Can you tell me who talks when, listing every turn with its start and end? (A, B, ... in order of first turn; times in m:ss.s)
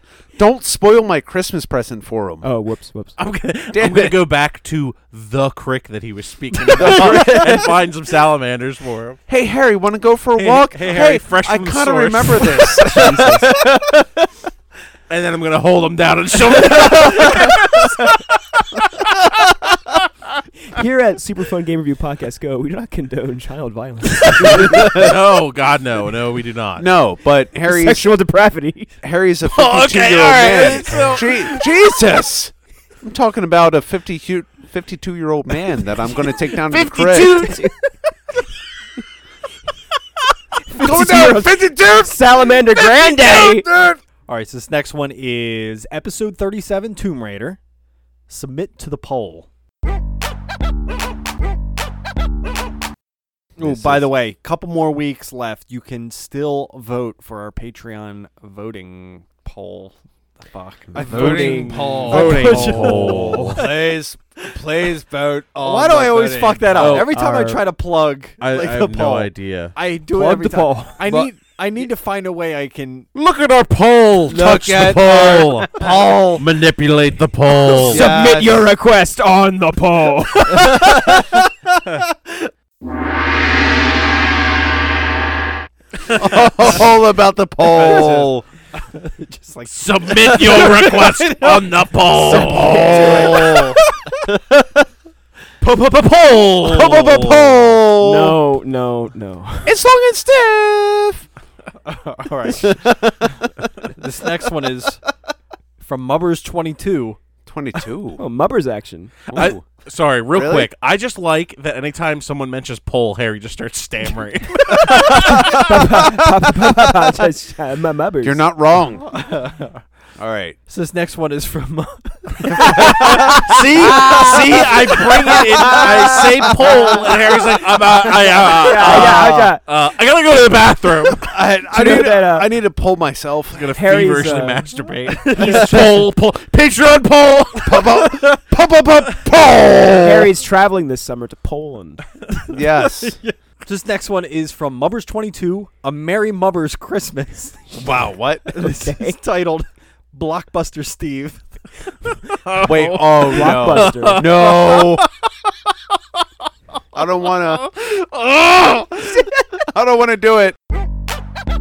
0:00.4-0:02.5 A
0:02.4-0:03.2 B
0:03.2-0:09.2 C
0:03.7-0:04.2 A
0:06.7-0:07.7 A
0:09.3-0:13.5 A
0:10.3-0:14.0 C
0:12.8-0:13.5 B
0:15.1-0:19.5 C
0:20.7-0:25.1 B
0:24.4-0:26.9 C
0:24.7-0:25.1 A
0:26.8-0:28.1 A
0:27.7-0:28.9 B
0:29.0-0:37.5 A
0:29.5-0:31.7 C
0:36.5-0:37.6 C
0:37.4-0:37.8 B
0:40.7-0:43.7 B
0:40.7-0:44.0 A
0:44.3-0:47.6 D
0:48.3-0:49.5 D
0:53.6-0:54.1 A
0:53.6-1:03.9 D
1:00.9-1:07.0 A
1:01.0-1:03.4 B
1:01.3-1:03.6 C
1:05.6-1:13.1 D
1:06.7-1:07.1 C
1:07.1-1:07.7 B
1:08.4-1:09.8 C
1:10.1-1:11.0 B
1:11.0-1:11.3 A
1:13.2-1:15.7 C
1:14.3-1:16.5 A
1:15.8-1:16.3 D
1:16.4-1:18.1 C
1:17.8-1:18.7 A
1:17.9-1:21.2 B
1:26.1-1:28.4 A
1:26.2-1:26.8 D
1:27.7-1:33.8 D
1:29.7-1:33.8 C
1:32.3-1:33.6 B
1:32.3-1:33.7 A
1:35.6-1:37.7 C
1:36.7-1:38.4 A
1:37.9-1:39.8 B
1:39.6-1:41.3 A
1:41.8-1:42.8 D
1:42.6-1:43.9 A
1:44.0-1:45.0 D
1:45.8-1:47.2 D
1:47.4-1:48.2 A
1:48.2-1:49.1 B
1:49.3-1:49.7 A
1:49.3-1:55.7 C
1:50.3-1:50.7 A
1:54.9-1:55.6 A
1:55.1-1:58.5 B
1:58.2-1:59.1 A
1:59.0-1:59.8 D
2:00.2-2:00.6 A
2:00.7-2:06.2 D
2:02.7-2:11.4 C
2:02.7-2:03.4 A
2:03.9-2:04.3 A
2:05.7-2:07.3 A
2:08.4-2:09.3 A
2:08.6-2:09.6 B
2:11.3-2:13.7 A
2:11.7-2:12.5 B
2:13.5-2:18.2 C
2:13.7-2:14.7 B
2:15.3-2:15.8 D
2:15.4-2:15.9 B
2:17.6-2:20.2 A
2:19.2-2:20.0 C
2:20.0-2:22.0 B
2:22.5-2:23.2 A
2:22.8-2:27.8 D
2:27.8-2:28.5 A
2:28.5-2:31.5 D
2:28.6-2:29.2 B
2:32.4-2:35.1 C
2:32.6-2:35.0 A
2:33.2-2:34.4 B
2:36.9-2:40.6 A